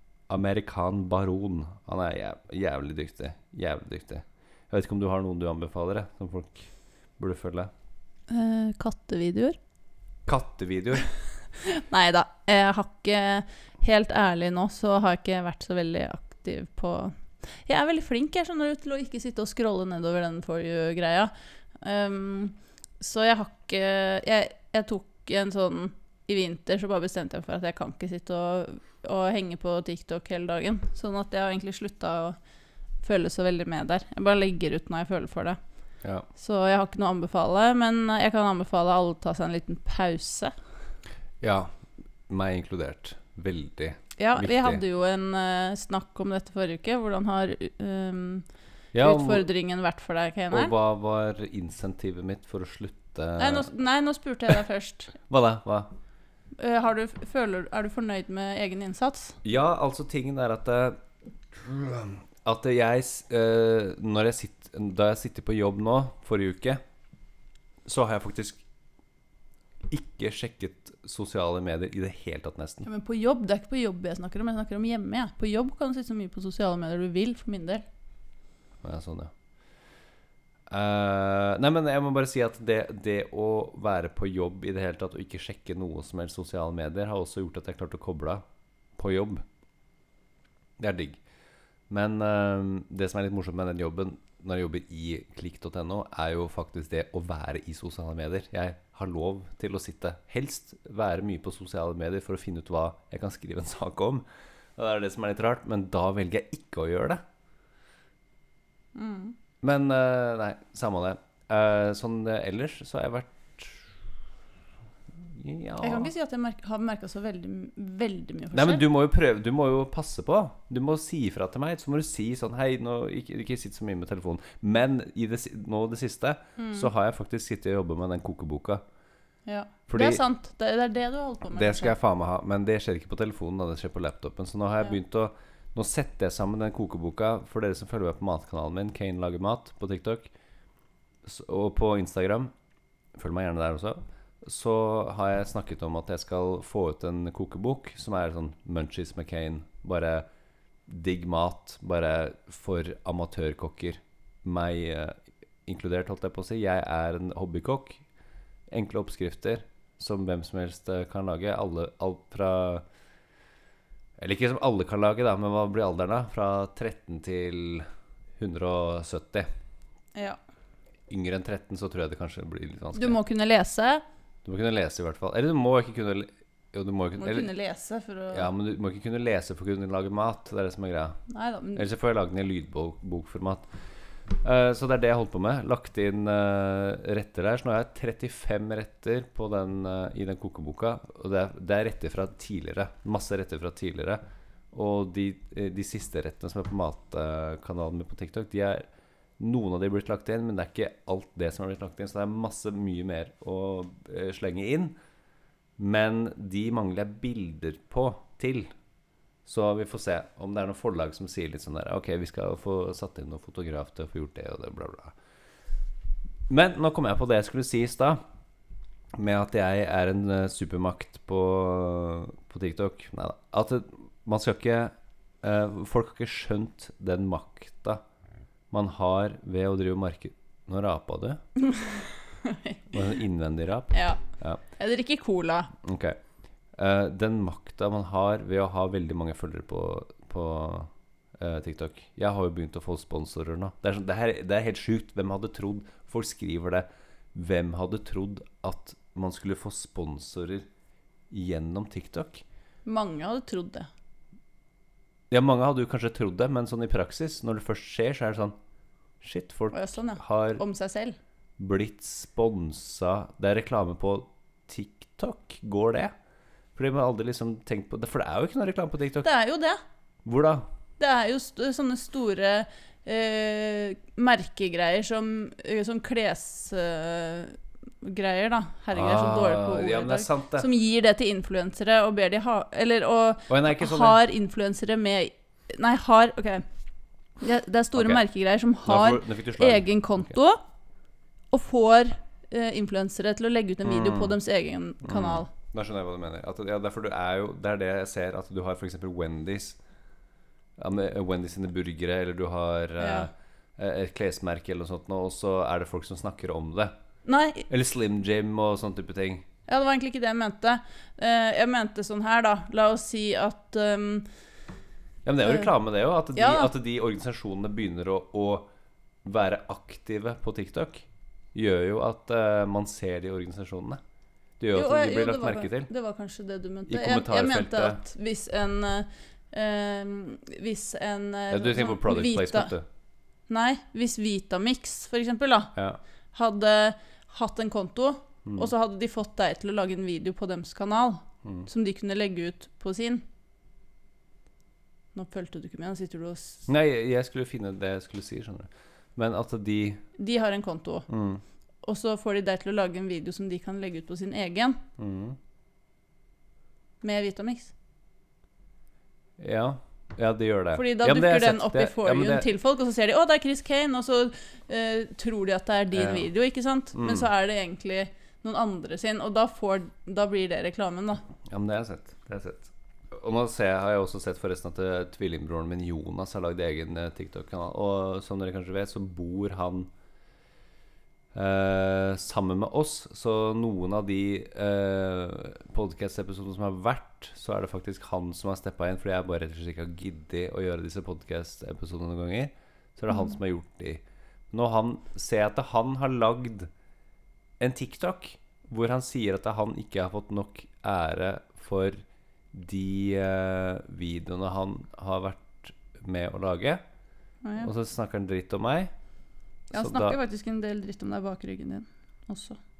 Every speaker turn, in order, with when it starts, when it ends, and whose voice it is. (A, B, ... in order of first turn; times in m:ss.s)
0:00.3-0:07.7 A
0:08.3-0:09.6 B
0:10.2-0:11.1 A
0:11.6-0:32.4 B
0:33.0-0:35.6 B
0:36.3-0:40.5 B
0:41.4-0:41.8 A
0:42.3-0:44.8 A
0:44.2-0:48.5 B
0:48.9-0:49.4 A
0:49.0-0:50.7 B
0:50.5-0:53.7 A
0:53.4-0:55.1 B
0:55.3-0:55.9 A
0:56.6-0:59.4 B
0:59.4-1:01.0 A
1:01.5-1:06.8 A
1:07.8-1:08.6 A
1:09.8-1:12.9 A
1:12.8-1:17.8 B
1:18.8-1:19.3 A
1:20.7-1:28.4 A
1:29.0-1:29.4 A
1:30.8-1:31.2 A
1:31.9-1:44.2 A
1:44.8-1:47.2 A
1:48.9-1:49.4 B
1:49.6-1:53.9 A
1:55.1-1:56.1 A
1:55.8-1:58.8 B
1:58.5-2:08.8 A
2:06.6-2:06.9 B
2:09.4-2:11.9 B
2:09.9-2:10.2 A
2:11.6-2:20.3 A
2:21.2-2:22.5 A
2:23.1-2:30.2 A
2:30.9-2:38.0 A
2:38.7-2:42.8 A
2:44.2-2:47.8 A
2:48.4-2:49.5 A
2:51.1-2:53.2 A
2:53.0-2:54.0 B
2:54.4-2:57.5 A
2:57.2-2:58.5 B
2:58.3-3:01.2 A
3:01.3-3:01.8 B
3:01.8-3:14.2 A
3:14.7-3:18.9 A
3:19.4-3:25.0 A
3:25.8-3:28.7 A
3:29.4-3:35.1 A
3:36.5-3:38.2 A
3:39.1-3:48.0 A
3:48.7-3:51.4 A
3:51.6-3:53.0 B
3:52.9-3:54.6 A
3:53.9-3:55.7 B
3:55.8-3:56.2 A
3:56.7-4:10.6 A
4:11.3-4:12.4 A
4:12.8-4:13.9 B
4:15.3-4:18.6 A
4:19.2-4:20.6 A
4:19.7-4:21.2 B
4:21.6-4:26.1 A
4:26.8-4:29.3 A
4:29.2-4:29.8 B
4:30.2-4:30.6 A
4:31.0-4:46.6 B
4:38.9-4:40.7 A
4:43.5-4:44.2 A
4:47.4-4:50.6 B
4:48.0-4:48.2 A
4:48.8-4:50.3 A
4:51.5-4:55.5 B
4:53.8-4:54.4 A
4:55.0-4:59.8 A
5:00.8-5:06.9 A
5:03.0-5:03.3 B
5:07.2-5:07.7 B
5:07.7-5:09.4 A
5:09.7-5:14.3 B
5:15.2-5:18.7 A
5:16.3-5:16.7 B
5:19.2-5:24.0 A
5:24.6-5:25.9 A
5:24.7-5:32.7 B
5:26.9-5:28.0 A
5:31.5-5:32.8 A
5:33.5-5:35.7 B
5:36.3-5:43.2 B
5:38.4-5:38.7 A
5:45.1-5:46.7 B
5:46.7-5:50.0 A
5:50.2-5:51.1 B
5:51.1-5:51.4 A
5:51.8-5:54.8 B
5:55.0-5:55.4 A
5:57.0-5:57.7 B
5:59.4-6:02.5 A
6:00.7-6:11.2 B
6:05.9-6:06.3 A
6:06.9-6:07.3 A
6:11.5-6:19.9 A
6:21.3-6:36.7 A
6:37.6-6:46.8 A
6:47.4-6:47.7 B
6:47.6-6:48.9 A
6:49.7-6:52.6 B
6:49.7-6:50.2 A